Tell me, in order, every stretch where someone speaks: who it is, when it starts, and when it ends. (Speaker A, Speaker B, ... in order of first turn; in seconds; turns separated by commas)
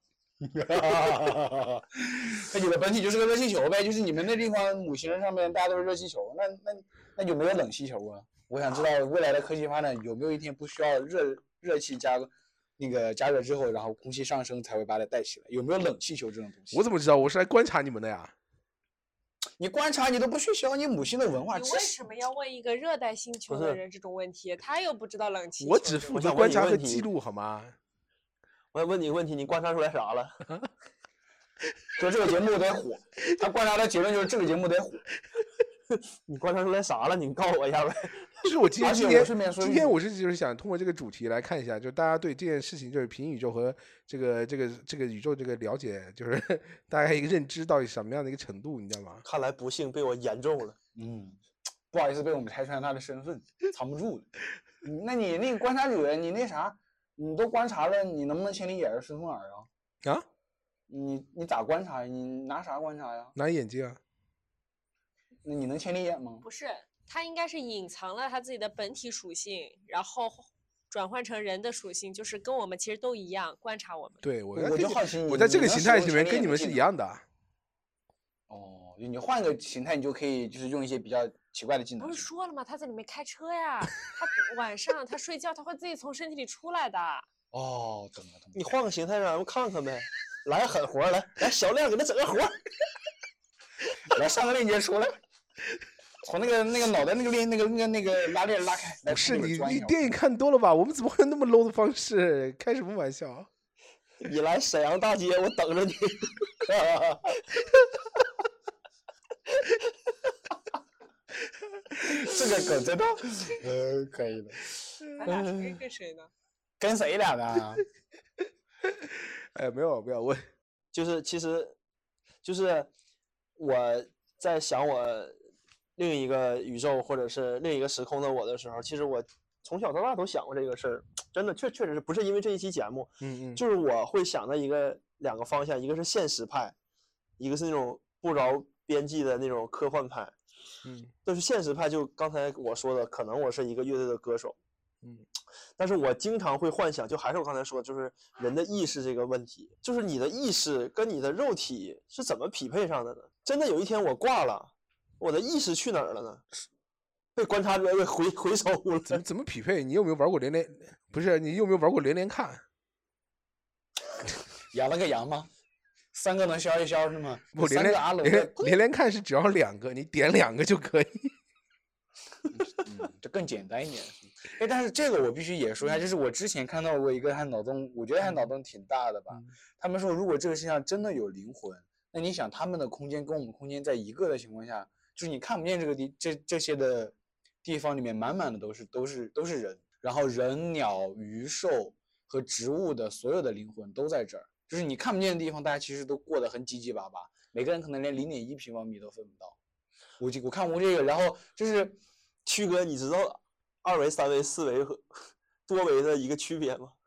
Speaker A: 0.4-16.9, Speaker B: 16.7-18.3, Speaker A: 19.6-21.9, Speaker C: 21.5-26.1, Speaker D: 23.5-23.8, Speaker B: 25.6-27.8, Speaker D: 26.1-27.1, Speaker D: 28.7-30.4, Speaker A: 31.9-35.0, Speaker D: 35.9-38.3, Speaker B: 38.4-49.2, Speaker A: 38.8-40.0, Speaker D: 49.2-50.8, Speaker A: 50.9-51.4, Speaker A: 51.9-54.3, Speaker A: 54.8-59.7, Speaker A: 60.9-63.3, Speaker B: 63.4-64.0, Speaker A: 65.4-66.4, Speaker C: 66.4-74.2, Speaker B: 74.2-77.2, Speaker A: 74.5-76.8, Speaker A: 78.5-82.3, Speaker C: 82.0-87.2, Speaker A: 87.5-88.6, Speaker D: 88.5-92.6, Speaker A: 94.1-95.2, Speaker A: 96.2-100.1, Speaker B: 99.1-103.5, Speaker D: 104.2-106.5, Speaker A: 106.7-107.4, Speaker A: 112.0-114.7, Speaker C: 115.2-116.3, Speaker A: 116.8-117.8, Speaker B: 118.8-120.5, Speaker D: 120.9-121.8, Speaker D: 122.4-122.9, Speaker D: 123.6-125.4, Speaker D: 126.0-136.7, Speaker B: 133.2-133.6, Speaker D: 137.4-140.3, Speaker B: 140.8-141.1, Speaker D: 141.2-144.6, Speaker D: 145.8-156.4, Speaker D: 157.4-159.2, Speaker B: 159.1-162.6, Speaker A: 164.7-165.5, Speaker A: 166.1-168.8, Speaker B: 167.6-171.3, Speaker A: 172.5-199.6, Speaker A: 200.2-202.0, Speaker D: 202.4-205.1, Speaker D: 205.7-206.9